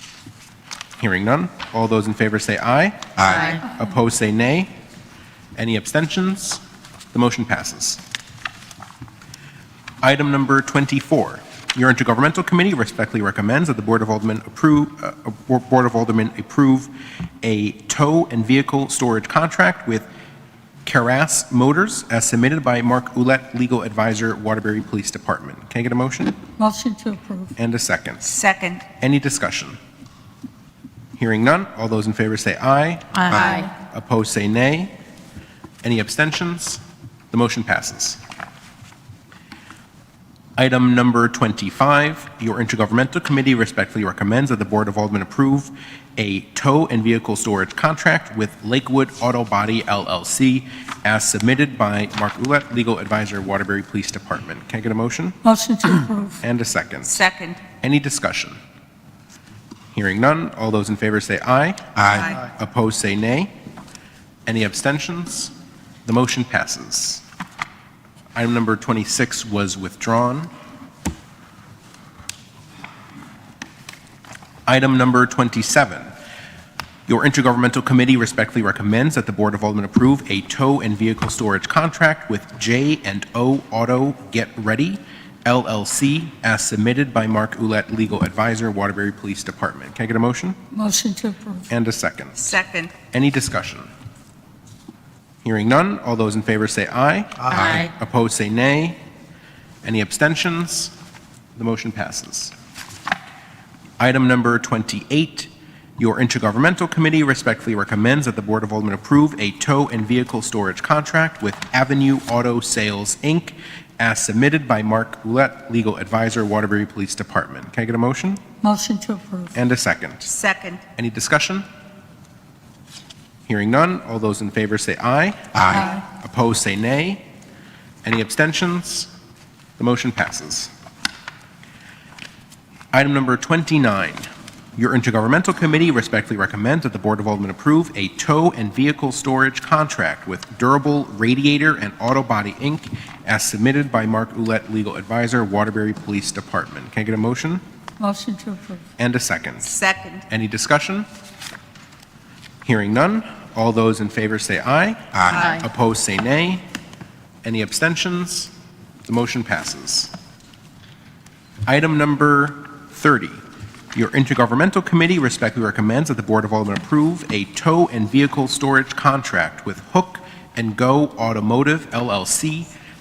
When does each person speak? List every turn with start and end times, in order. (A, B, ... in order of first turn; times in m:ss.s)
0:01.0-0:04.7 A
0:03.3-0:03.6 B
0:05.6-0:06.6 A
0:07.1-0:08.0 A
0:10.0-0:16.9 A
0:17.4-0:20.1 A
0:20.8-0:26.4 A
0:26.6-0:27.5 C
0:27.6-0:29.8 A
0:28.3-0:28.8 B
0:31.2-0:34.9 A
0:33.2-0:33.7 B
0:35.8-0:38.2 A
0:40.6-0:55.4 A
0:55.4-0:56.4 C
0:56.4-0:58.6 A
0:57.1-0:57.6 B
0:59.9-1:03.5 A
1:02.1-1:02.4 B
1:04.5-1:05.5 A
1:06.0-1:07.2 A
1:08.4-1:10.5 A
1:14.7-1:16.1 A
1:17.1-1:30.6 A
1:30.7-1:31.6 C
1:31.7-1:33.9 A
1:32.4-1:32.9 B
1:35.4-1:39.0 A
1:37.6-1:37.9 B
1:39.8-1:40.9 A
1:41.6-1:42.5 A
1:44.0-1:58.4 A
1:58.6-1:59.5 C
1:59.5-2:00.4 A
2:00.3-2:00.8 B
2:00.9-2:01.7 A
2:03.5-2:07.2 A
2:05.7-2:06.0 C
2:08.0-2:09.1 A
2:09.8-2:10.7 A
2:12.9-2:27.6 A
2:28.0-2:28.8 C
2:29.0-2:31.1 A
2:29.6-2:30.3 B
2:32.6-2:36.6 A
2:35.3-2:35.6 B
2:37.4-2:38.5 A
2:39.0-2:40.1 A
2:41.7-2:43.4 A
2:43.9-2:52.7 A